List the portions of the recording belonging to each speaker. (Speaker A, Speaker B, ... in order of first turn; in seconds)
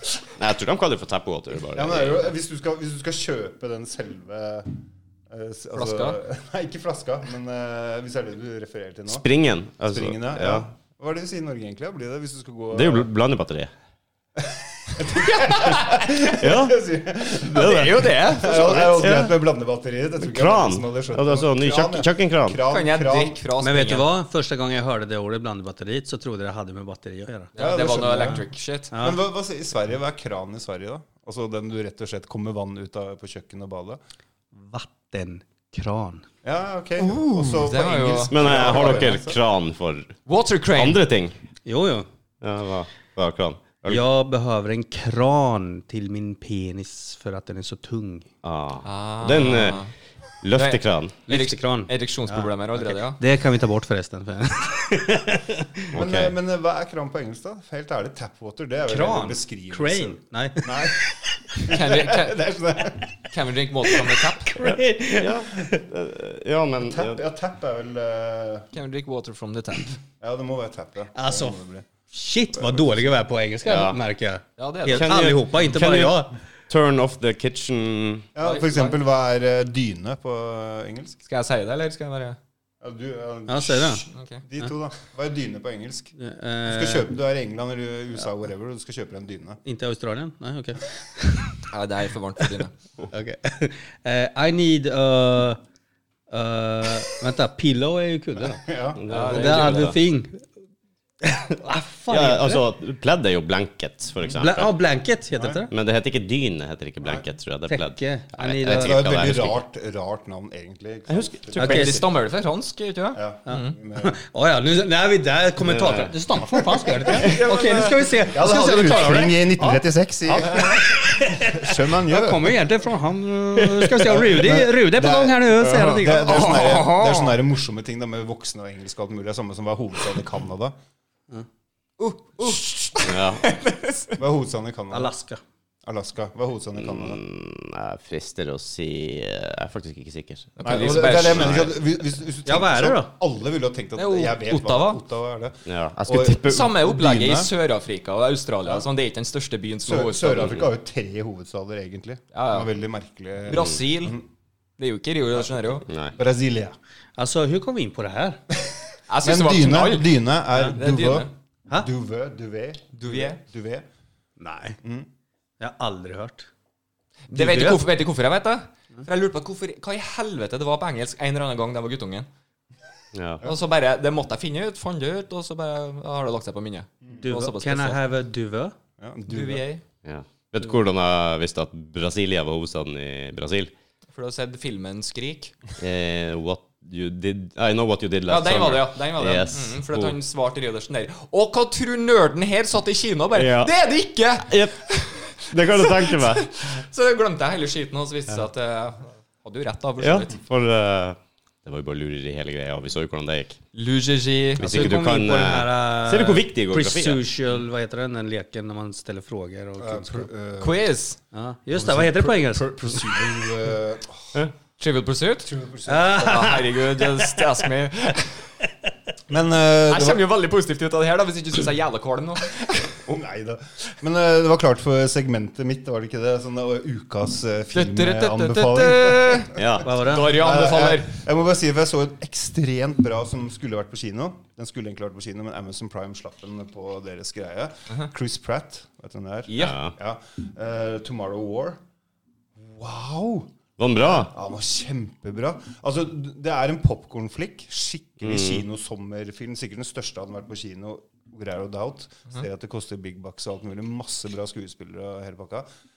Speaker A: 0.4-2.2, 9.1-10.7, 12.7-13.7, 16.2-16.9, 17.5-18.1, 19.0-19.3, 20.2-22.6, 38.3-40.1, 40.8-41.4, 42.4-44.0, 48.4-49.8, 50.4-51.1, 55.9-56.3, 64.5-67.2, 73.6-74.0, 74.9-78.3, 99.0-99.9, 102.1-104.7, 105.7-109.6, 111.1-112.0, 115.6-116.1, 133.0-133.4, 136.8-141.7, 145.7-146.6, 155.9-156.1, 173.1-173.4, 180.0-183.7, 185.8-190.2, 193.3-193.7, 194.5-194.8, 195.4-196.5, 200.0-203.6, 204.6-207.2, 229.5-229.9, 239.6-239.9, 243.8-244.3, 248.2-248.6
Speaker B: 1.7-9.2, 9.8-13.1, 14.4-23.4, 27.6-34.0, 36.4-39.4, 55.9-63.1, 66.8-68.7, 70.2-71.9, 72.5-73.2, 78.3-81.2, 82.8-86.1, 86.6-89.6, 98.6-99.7, 108.6-111.8, 113.1-114.2, 116.9-117.4, 118.2-122.7, 123.6-130.7, 134.2-135.1, 135.8-137.2, 140.6-147.5, 149.8-154.2, 156.2-156.8, 158.5-163.9, 164.8-165.1, 179.0-179.6, 209.8-210.8, 211.7-214.4, 215.4-216.7, 219.3-220.2, 222.9-241.8, 242.6-243.5, 244.0-255.7
Speaker C: 5.8-6.2, 17.4-19.1, 22.6-24.1, 27.6-28.9, 37.0-39.1, 40.2-41.0, 48.8-49.9, 50.5-53.2, 61.6-62.4, 63.3-64.6, 68.7-70.0, 74.6-75.3, 78.4-79.0, 81.2-82.4, 84.1-84.4, 91.7-92.7, 99.1-100.0, 111.5-113.8, 117.1-118.2, 126.1-127.4, 132.0-134.2, 140.6-141.8, 143.9-145.0, 146.3-150.7, 152.3-152.7, 153.5-154.2, 154.8-155.9, 159.1-160.2, 160.7-161.3, 162.9-163.4, 167.3-172.3, 173.4-178.0, 179.3-179.8, 184.1-185.6, 188.3-200.3, 203.7-204.9, 210.6-211.2, 214.8-215.5, 216.2-218.4, 219.9-223.0, 227.7-231.2, 239.5-239.8
Speaker D: 23.6-27.5, 28.9-29.2, 34.5-36.2, 41.6-42.1, 43.9-48.3, 51.3-55.9, 58.9-61.2, 64.5-65.8, 71.1-71.6, 72.1-76.3, 83.5-84.0, 86.2-87.1, 89.6-91.6, 93.1-95.6, 96.3-98.8, 99.3-100.5, 101.2-102.6, 104.3-105.7, 107.7-109.0, 111.6-112.0, 113.5-126.5, 134.9-135.4, 142.4-143.1, 157.2-158.4, 164.4-164.8, 165.6-166.5, 167.3-167.8, 177.2-178.8, 204.6-210.3, 211.3-213.1, 215.8-216.9, 229.8-230.3